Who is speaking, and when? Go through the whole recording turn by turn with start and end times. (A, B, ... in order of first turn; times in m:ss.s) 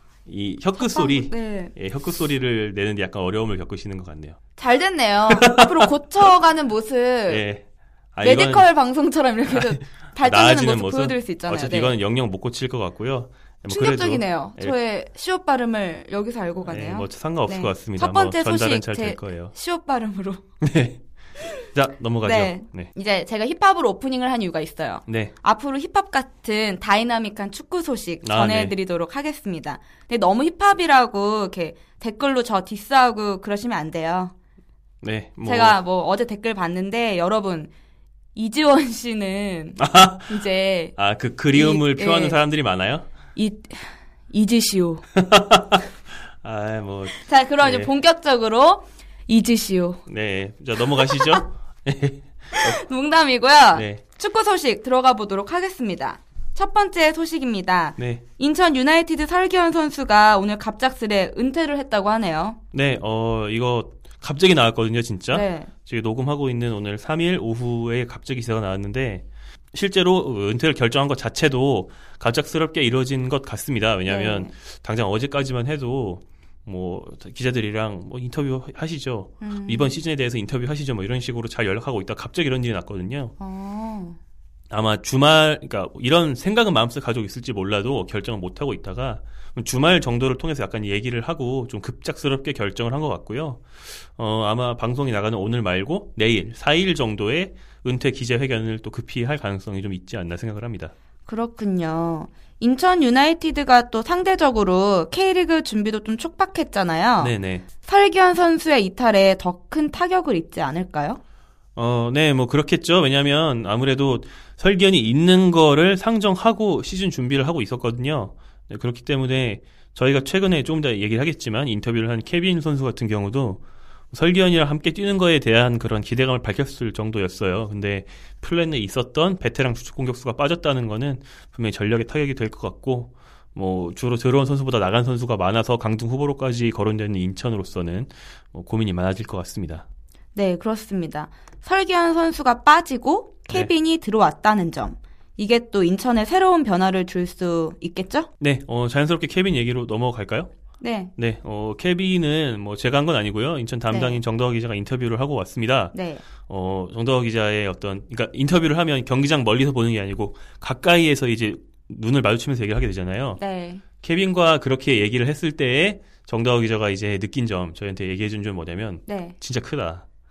0:00.2-0:04.4 A
0:00.7-0:01.7 B
0:04.6-0:07.4 B
0:05.3-0:05.9 A
0:07.3-0:08.7 A
0:08.2-0:11.9 B
0:09.5-0:14.8 A
0:13.7-0:20.4 B
0:16.6-0:19.5 A
0:20.6-0:21.0 A
0:21.6-0:22.9 A
0:22.2-0:34.3 B
0:25.1-0:25.3 A
0:28.2-0:28.7 A
0:35.0-0:35.8 A
0:35.4-0:37.7 B
0:38.3-0:41.0 B
0:39.8-0:40.4 A
0:41.0-0:43.1 A
0:41.5-0:42.4 B
0:43.3-0:45.0 B
0:45.1-0:45.8 A
0:46.4-0:47.9 A
0:47.2-0:50.0 B
0:50.1-0:52.8 A
0:51.0-0:51.2 B
0:52.5-1:02.6 B
0:53.7-0:54.0 A
0:58.0-0:58.2 A
1:02.7-1:23.3 A
1:05.3-1:05.7 B
1:14.0-1:14.5 B
1:19.4-1:20.0 B
1:23.4-1:24.2 B
1:24.7-1:40.9 A
1:41.2-1:51.2 B
1:47.2-1:47.6 A
1:51.8-2:19.8 A
2:20.3-2:28.3 B
2:28.4-2:30.5 A
2:30.8-2:31.1 B
2:31.2-2:43.4 A
2:33.9-2:34.2 B
2:35.9-2:36.2 B
2:43.4-2:43.8 B
2:44.0-2:50.0 A
2:49.0-2:49.4 B